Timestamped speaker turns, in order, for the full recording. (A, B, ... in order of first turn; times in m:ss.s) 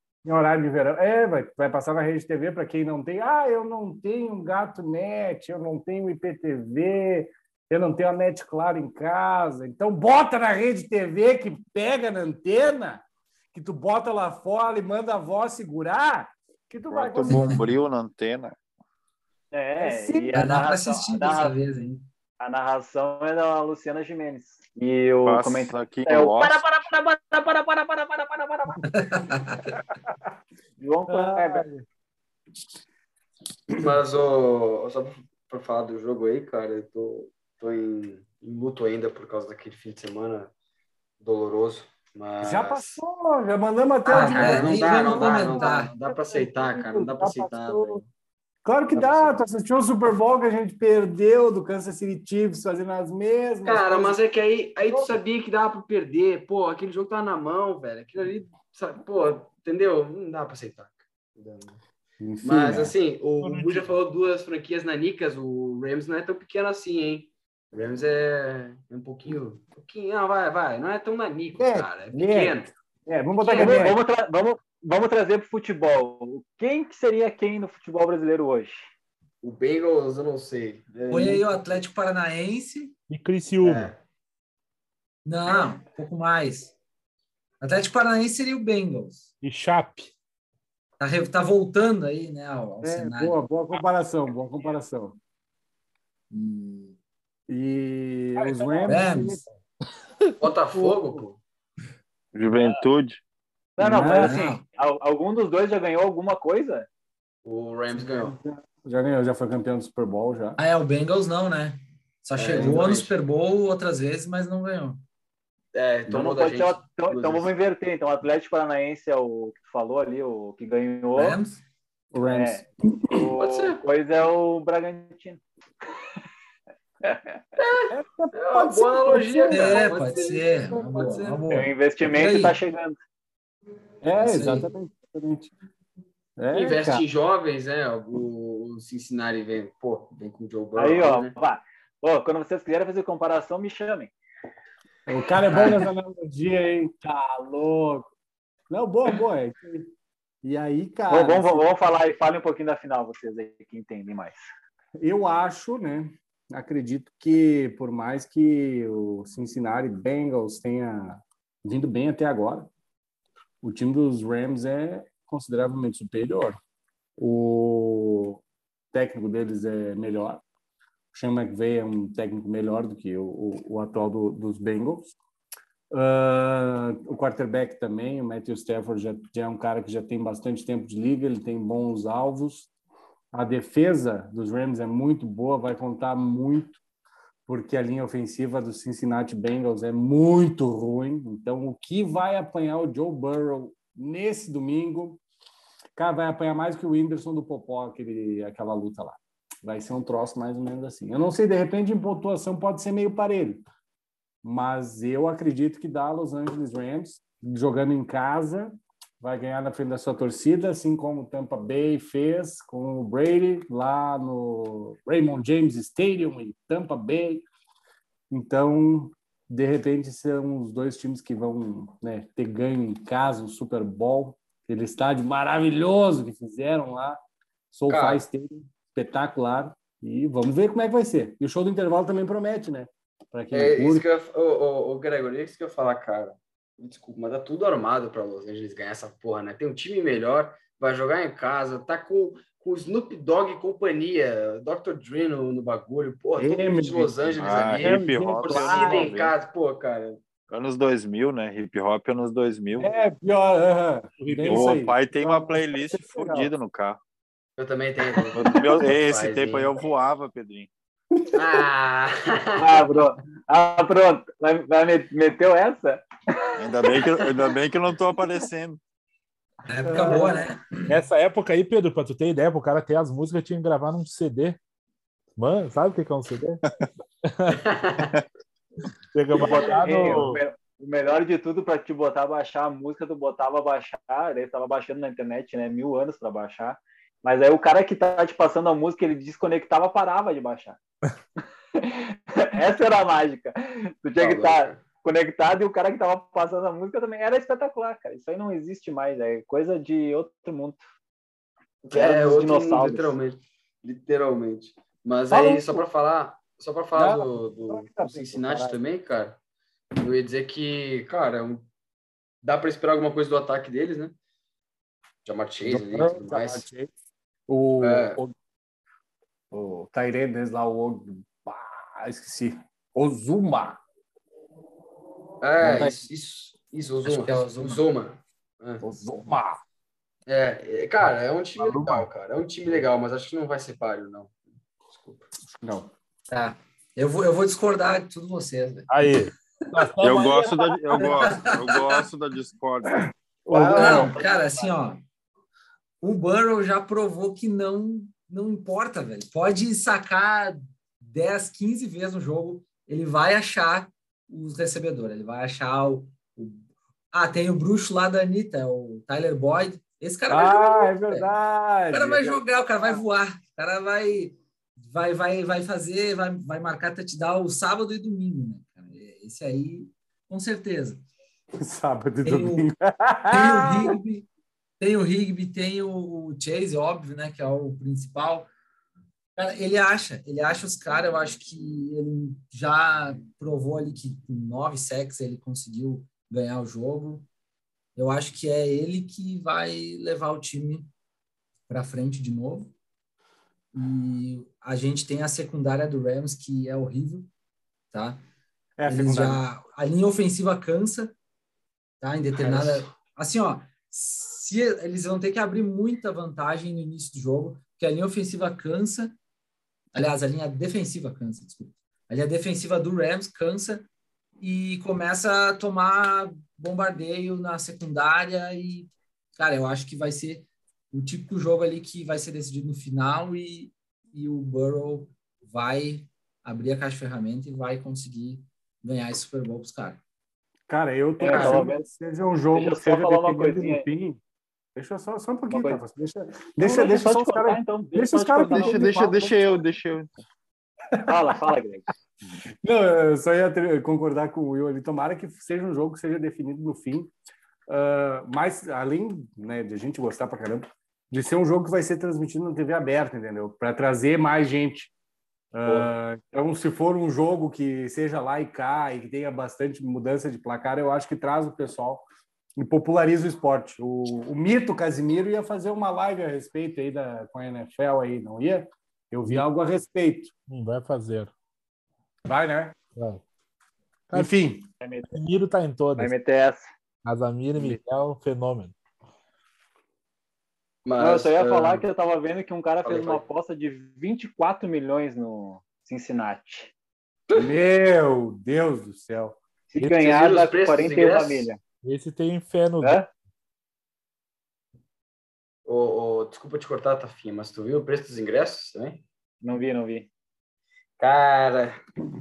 0:00.2-0:17.6 A
0:16.9-0:18.6 B
0:17.3-0:17.6 C
0:19.5-0:21.6 D
0:19.8-0:20.4 A
0:20.3-0:22.1 C
0:22.4-0:28.9 D
0:25.2-0:26.8 B
0:28.8-0:29.6 C
0:30.8-0:31.7 D
0:31.1-0:31.9 A
0:33.8-0:40.5 E
0:41.2-0:43.0 E
0:42.4-0:48.0 A
0:44.0-0:48.1 E
0:44.2-0:45.9 C
0:48.6-0:54.2 A
0:48.9-0:49.3 E
0:53.7-1:01.8 E
0:54.9-0:55.2 A
1:02.2-1:03.0 A
1:02.4-1:12.7 E
1:03.4-1:03.9 F
1:11.6-1:14.0 A
1:13.4-1:14.0 E
1:13.5-1:18.9 D
1:19.4-1:21.8 E
1:21.1-1:23.0 C
1:23.1-1:23.9 F
1:23.6-1:24.0 E
1:25.2-1:26.8 C
1:27.6-1:29.3 C
1:29.4-1:30.1 F
1:31.0-1:33.4 C
1:32.8-1:35.2 A
1:36.3-1:36.9 C
1:37.5-1:39.4 A
1:38.4-1:39.5 F
1:38.9-1:39.4 C
1:40.4-1:41.4 E
1:40.8-1:41.2 A
1:42.3-1:43.2 B
1:42.6-1:42.8 D
1:43.8-1:46.9 D
1:43.8-1:44.4 A
1:44.2-1:44.6 C
1:47.4-1:48.4 E
1:47.9-1:50.6 A
1:50.6-1:55.0 C
1:52.4-1:53.1 E
1:52.5-1:52.8 A
1:55.8-1:57.5 E
1:56.1-2:01.4 D
2:01.2-2:01.6 C
2:02.1-2:03.3 A
2:02.2-2:05.4 D
2:03.4-2:03.8 E
2:07.0-2:07.4 D
2:07.6-2:11.4 E
2:07.9-2:11.4 A
2:09.5-2:12.6 C
2:11.5-2:13.0 D
2:14.0-2:15.5 A
2:14.2-2:14.7 C
2:16.4-2:17.0 A
2:16.5-2:21.3 E
2:20.8-2:24.1 D
2:25.1-2:28.1 A
2:28.7-2:29.9 A
2:30.4-2:31.7 A
2:31.1-2:34.5 D
2:35.0-2:42.7 A
2:43.6-2:46.6 A
2:47.2-2:48.4 A
2:48.9-2:50.4 A
2:51.1-2:55.2 A
2:55.9-3:02.7 A
3:03.3-3:06.8 A
3:07.5-3:15.2 A
3:16.0-3:23.6 A
3:24.4-3:37.5 A
3:38.3-3:47.2 A
3:47.7-3:54.1 A
3:47.9-3:48.2 E
3:53.5-4:10.2 E
4:06.4-4:07.3 A
4:07.4-4:09.3 B
4:07.8-4:09.1 A
4:10.5-4:12.9 B
4:12.8-4:16.5 A
4:14.2-4:14.8 F
4:14.5-4:17.0 B
4:17.6-4:19.7 E
4:18.3-4:20.7 B
4:21.4-4:22.9 E
4:22.6-4:27.1 D
4:26.6-4:28.8 B
4:29.7-4:30.6 C
4:29.8-4:30.5 A
4:30.9-4:34.6 F
4:35.4-4:36.6 F
4:37.2-4:37.6 F
4:37.5-4:38.1 E
4:39.1-4:40.4 F
4:39.4-4:50.8 D
4:39.8-4:40.4 A
4:51.8-5:00.8 D
4:54.2-4:54.8 E
5:01.9-5:09.4 E
5:01.9-5:03.2 D
5:05.3-5:05.8 A
5:07.0-5:08.8 A
5:10.0-5:11.7 E
5:12.4-5:14.2 E
5:15.2-5:16.7 E
5:15.6-5:16.9 A
5:17.5-5:18.4 A
5:17.8-5:18.2 E
5:19.5-5:23.8 A
5:25.4-5:28.8 E
5:25.6-5:26.0 A
5:27.0-5:27.8 C
5:28.8-5:29.6 A
5:30.3-5:35.3 E
5:31.6-5:32.1 F
5:35.5-5:35.9 A
5:36.3-5:38.9 C
5:38.9-5:40.4 F
5:40.0-5:44.1 B
5:40.2-5:41.5 D
5:41.0-5:42.0 C
5:43.5-5:44.2 A
5:43.6-5:45.0 C
5:44.2-5:44.6 D
5:46.0-6:01.3 C
6:00.3-6:03.0 A
6:01.9-6:11.0 C
6:11.6-6:14.0 A
6:12.2-6:12.7 C
6:13.3-6:14.3 C
6:14.8-6:18.5 C
6:19.4-6:27.3 C
6:28.0-6:30.9 C
6:31.7-6:32.7 C
6:33.7-6:37.3 C
6:37.9-6:38.2 C
6:38.8-6:39.4 A
6:38.9-6:41.2 C
6:42.0-6:49.2 C
6:42.4-6:43.0 E
6:49.9-6:53.9 C
6:54.4-7:10.0 C
7:10.7-7:14.2 A
7:11.2-7:11.8 D
7:11.3-7:11.6 E
7:12.5-7:13.8 D
7:14.8-7:19.3 A
7:15.5-7:15.8 D
7:16.6-7:19.3 D
7:18.5-7:20.1 B
7:21.1-7:21.9 D
7:22.6-7:27.1 A
7:27.7-7:34.9 A
7:35.6-7:42.1 A
7:42.6-7:50.3 A
7:50.5-7:51.3 F
7:52.3-7:52.8 A
7:53.0-7:53.2 F
7:54.1-7:54.7 A
7:54.8-7:55.1 D
7:55.1-7:56.1 F
7:56.0-7:56.7 D
7:57.0-7:58.8 F
7:57.6-7:57.8 A
8:00.8-8:01.9 E
8:01.0-8:06.7 D
8:02.8-8:03.2 E
8:07.4-8:09.4 A
8:09.7-8:11.6 D
8:09.8-8:11.5 E
8:11.8-8:13.0 F
8:12.8-8:13.1 D
8:15.7-8:19.0 E
8:19.4-8:20.1 D
8:21.0-8:21.8 E